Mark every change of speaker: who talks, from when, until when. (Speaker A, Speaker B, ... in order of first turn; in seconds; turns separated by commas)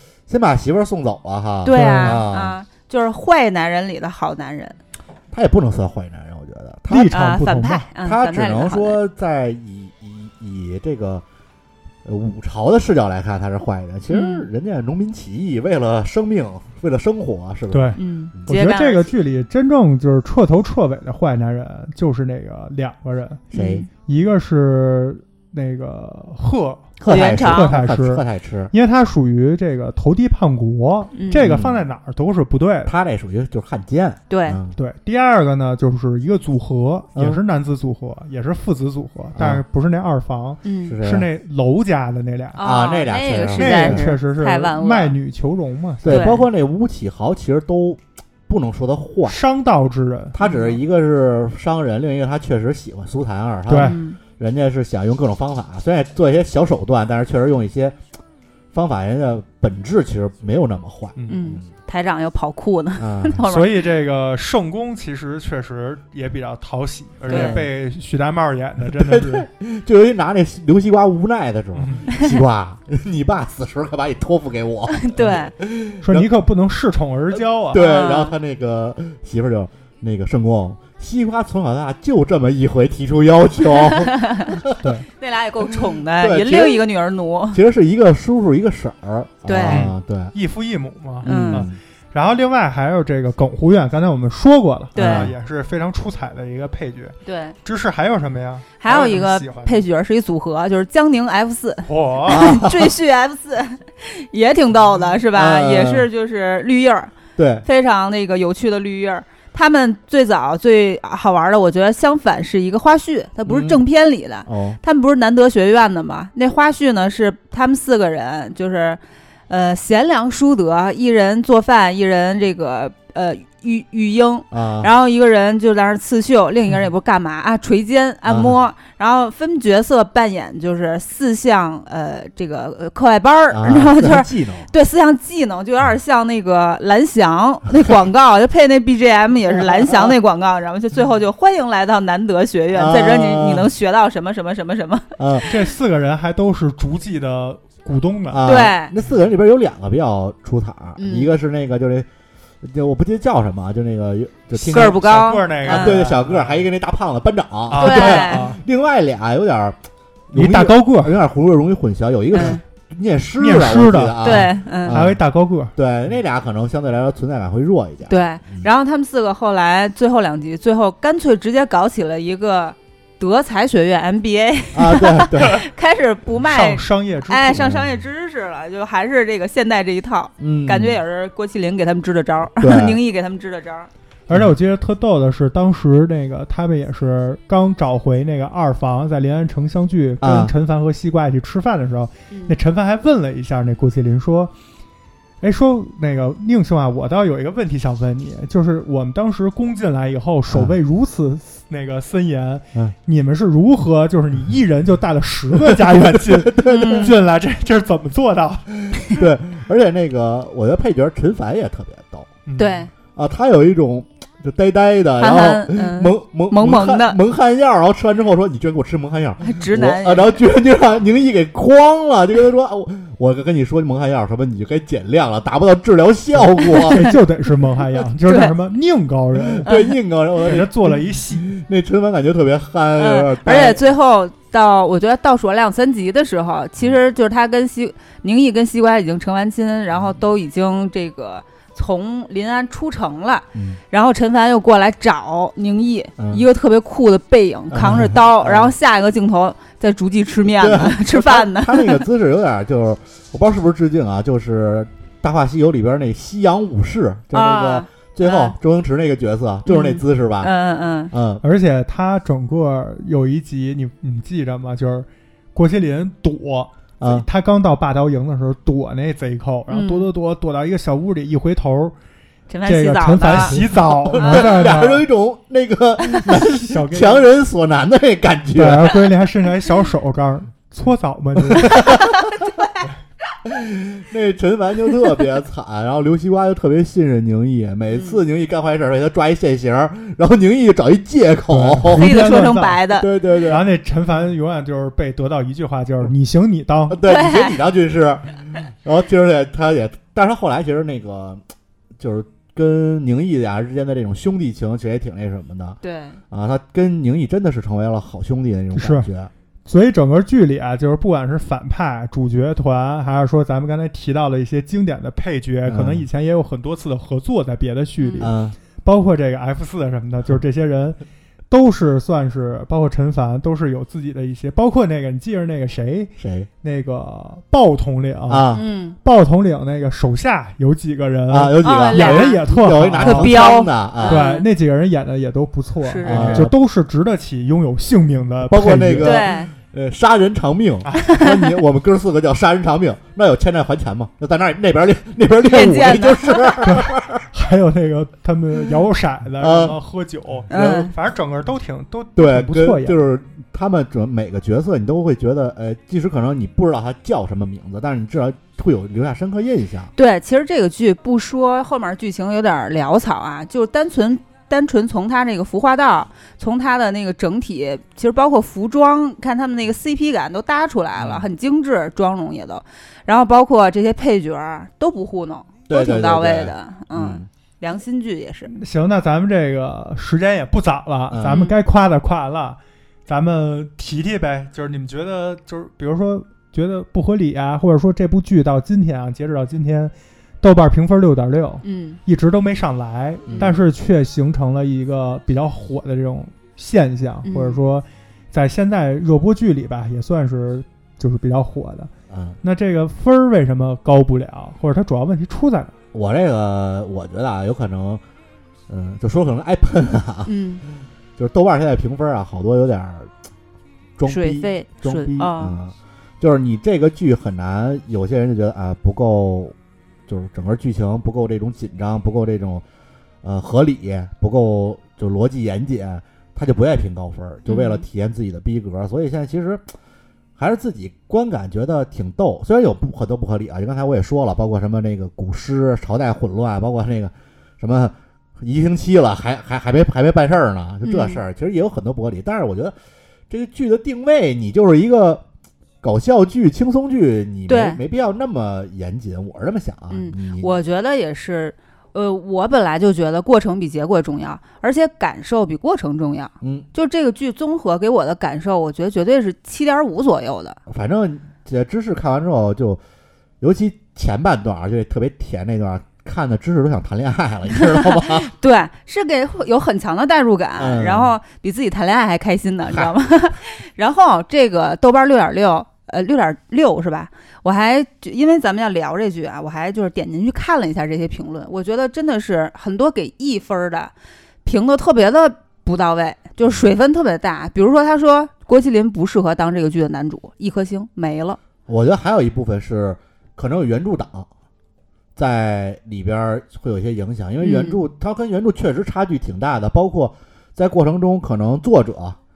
Speaker A: 0.3-2.5, Speaker B: 1.6-4.8, Speaker C: 1.7-2.2, Speaker A: 5.3-7.3, Speaker C: 6.9-7.8, Speaker B: 7.1-9.0, Speaker A: 8.0-11.2, Speaker A: 12.0-18.4, Speaker B: 14.1-14.4, Speaker C: 17.7-32.9, Speaker B: 17.9-19.1, Speaker A: 23.5-23.9, Speaker B: 23.5-23.9, Speaker A: 27.0-28.7, Speaker B: 27.1-27.7, Speaker B: 31.1-31.4, Speaker A: 31.4-31.8, Speaker A: 32.9-34.8, Speaker B: 34.3-34.6, Speaker C: 34.8-42.6, Speaker A: 39.4-39.6, Speaker B: 40.6-41.0, Speaker A: 40.9-41.3, Speaker B: 42.5-45.1, Speaker A: 42.6-44.1, Speaker C: 43.5-46.3, Speaker A: 46.0-49.4, Speaker B: 46.0-46.5, Speaker C: 49.2-50.4, Speaker A: 50.3-58.0, Speaker B: 50.4-50.8, Speaker C: 53.7-54.0, Speaker B: 53.8-54.2, Speaker A: 58.7-61.6, Speaker C: 61.1-61.4, Speaker B: 61.3-63.8, Speaker A: 63.0-63.4, Speaker C: 63.5-69.5, Speaker A: 67.2-67.7, Speaker B: 67.3-67.6, Speaker A: 68.8-76.3, Speaker C: 71.7-72.1, Speaker B: 74.9-75.5, Speaker C: 76.0-77.8, Speaker A: 77.3-84.8, Speaker B: 77.7-78.3, Speaker B: 83.8-84.6, Speaker B: 85.2-87.6, Speaker A: 85.7-86.8, Speaker A: 87.5-90.3, Speaker B: 89.4-89.8, Speaker C: 89.7-99.8, Speaker A: 91.2-91.8, Speaker B: 91.2-91.7, Speaker B: 94.9-95.3, Speaker A: 95.0-95.3, Speaker B: 97.2-97.5, Speaker B: 98.8-107.1, Speaker C: 101.9-102.5, Speaker A: 102.3-102.9, Speaker A: 105.3-106.1, Speaker A: 107.3-107.7, Speaker B: 107.6-145.5, Speaker A: 113.5-113.8, Speaker A: 114.5-114.8, Speaker A: 124.5-124.9, Speaker A: 128.3-128.5, Speaker A: 133.5-134.7, Speaker A: 139.5-140.1, Speaker A: 142.7-143.7, Speaker A: 145.2-145.5, Speaker C: 145.5-148.4, Speaker A: 148.3-152.1, Speaker B: 148.4-148.9, Speaker B: 151.0-151.3, Speaker A: 152.6-159.8, Speaker C: 154.6-156.7, Speaker B: 154.6-156.0, Speaker C: 157.7-158.6, Speaker B: 157.8-158.4, Speaker A: 160.3-165.2, Speaker C: 160.3-161.2, Speaker B: 162.3-162.6, Speaker C: 163.4-165.7, Speaker B: 164.2-165.0, Speaker A: 165.7-168.7, Speaker B: 168.1-183.9, Speaker A: 174.7-175.6, Speaker C: 176.4-177.6, Speaker A: 177.6-178.0, Speaker A: 180.4-181.0, Speaker A: 182.6-183.0, Speaker C: 184.3-194.5, Speaker A: 190.2-190.5, Speaker C: 195.4-208.9, Speaker A: 200.5-200.8, Speaker A: 205.6-207.1, Speaker B: 206.7-207.1, Speaker A: 209.1-212.3, Speaker C: 212.4-212.8, Speaker B: 212.6-212.9, Speaker A: 213.2-227.1, Speaker B: 215.2-217.2, Speaker B: 219.4-220.4, Speaker C: 226.4-229.7, Speaker B: 226.7-227.1, Speaker B: 228.2-228.5, Speaker A: 229.3-233.8, Speaker B: 229.7-229.9, Speaker C: 230.4-231.5, Speaker B: 232.9-252.0, Speaker A: 246.2-246.4, Speaker A: 247.7-248.7, Speaker A: 250.5-260.5, Speaker B: 257.3-258.5, Speaker B: 259.6-261.1, Speaker A: 261.1-261.4, Speaker C: 261.4-271.9, Speaker A: 267.0-267.2, Speaker B: 269.7-270.1, Speaker B: 272.5-273.6, Speaker C: 272.6-275.0, Speaker A: 273.3-279.0, Speaker B: 274.1-274.4, Speaker C: 276.3-277.2, Speaker C: 278.5-281.8, Speaker A: 281.4-282.3, Speaker B: 281.7-282.9, Speaker A: 283.4-292.4, Speaker B: 287.9-288.2, Speaker C: 291.5-292.8, Speaker B: 291.9-293.1, Speaker A: 292.9-293.6, Speaker C: 293.4-297.0, Speaker A: 296.9-301.4, Speaker B: 297.0-297.6, Speaker A: 302.0-305.8, Speaker B: 305.8-306.2, Speaker A: 306.3-309.3, Speaker C: 308.7-309.1, Speaker C: 309.7-321.0, Speaker A: 315.7-316.0, Speaker B: 318.0-318.3, Speaker A: 318.2-318.6, Speaker C: 321.5-333.4, Speaker A: 326.2-326.5, Speaker A: 328.3-328.6, Speaker B: 328.5-328.9, Speaker A: 331.3-334.2, Speaker B: 331.6-332.4, Speaker B: 333.0-334.4, Speaker C: 334.0-339.2, Speaker B: 335.8-336.5, Speaker A: 336.0-336.5, Speaker A: 338.5-347.2, Speaker B: 339.0-339.5, Speaker C: 340.8-341.2, Speaker B: 341.0-341.2, Speaker B: 345.4-346.6, Speaker C: 346.6-353.0, Speaker A: 349.4-349.8, Speaker B: 350.5-350.9, Speaker A: 352.1-359.9, Speaker B: 359.9-378.5, Speaker A: 371.0-371.3, Speaker A: 375.7-377.3, Speaker C: 378.5-401.9, Speaker A: 381.1-381.4, Speaker B: 381.2-381.6, Speaker B: 391.6-392.0, Speaker A: 393.3-393.6, Speaker B: 397.2-397.6, Speaker A: 402.1-402.4, Speaker C: 402.4-405.7, Speaker A: 405.9-408.0, Speaker A: 408.7-413.1, Speaker B: 410.2-410.6, Speaker A: 414.0-419.5, Speaker B: 414.1-415.6, Speaker A: 420.1-422.6, Speaker A: 423.2-429.6, Speaker B: 427.4-427.8, Speaker A: 430.4-442.7, Speaker B: 440.8-441.2, Speaker A: 443.3-445.2, Speaker A: 445.8-450.5, Speaker B: 447.5-447.8, Speaker B: 449.9-460.6, Speaker A: 456.4-456.7, Speaker A: 460.7-462.8, Speaker A: 463.4-468.3, Speaker B: 467.7-483.9, Speaker A: 470.6-471.1, Speaker B: 484.4-491.4, Speaker A: 491.7-494.3, Speaker A: 495.1-502.2, Speaker B: 497.4-497.8